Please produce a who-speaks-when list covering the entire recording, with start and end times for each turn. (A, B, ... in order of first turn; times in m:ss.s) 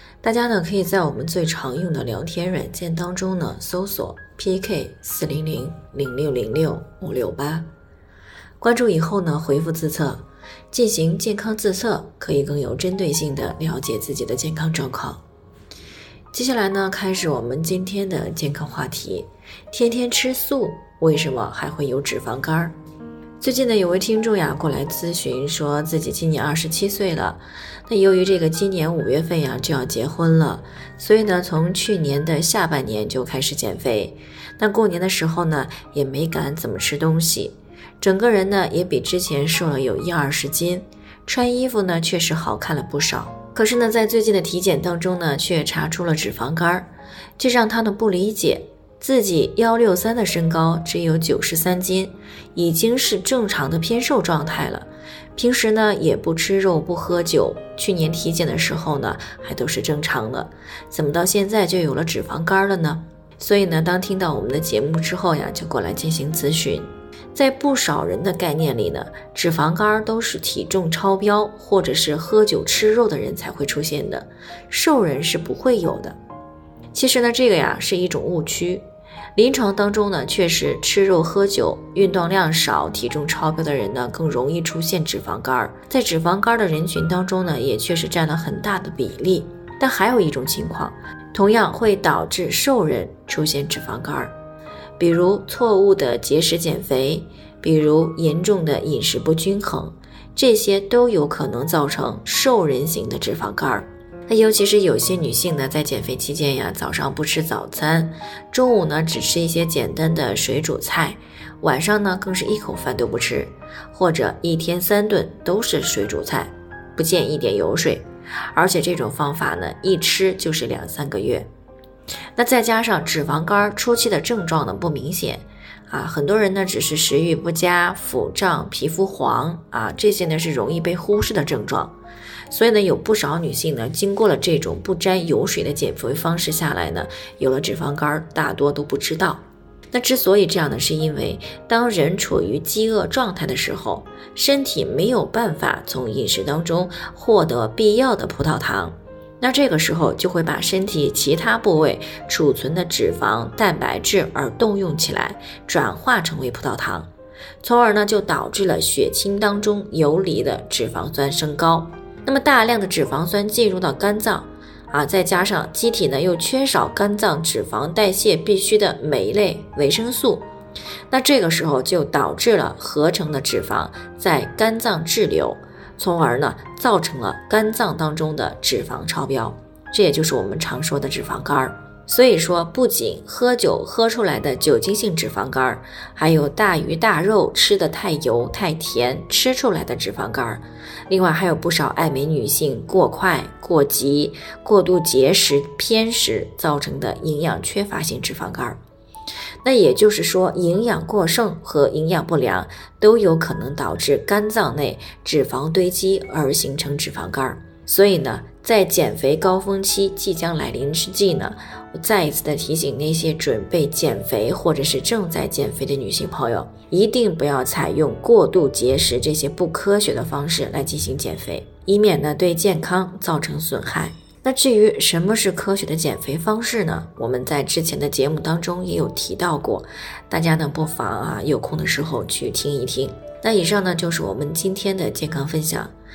0:00.2-0:07.7 A
0:08.6-0:15.2 A
0:16.3-0:22.8 A
0:23.4-1:16.2 A
1:16.9-1:18.8 A
1:19.4-1:34.3 A
1:35.0-2:01.5 A
2:02.4-2:11.9 A
2:12.5-2:37.1 A
2:37.6-2:50.5 A
2:51.1-3:18.8 A
3:19.6-3:55.9 A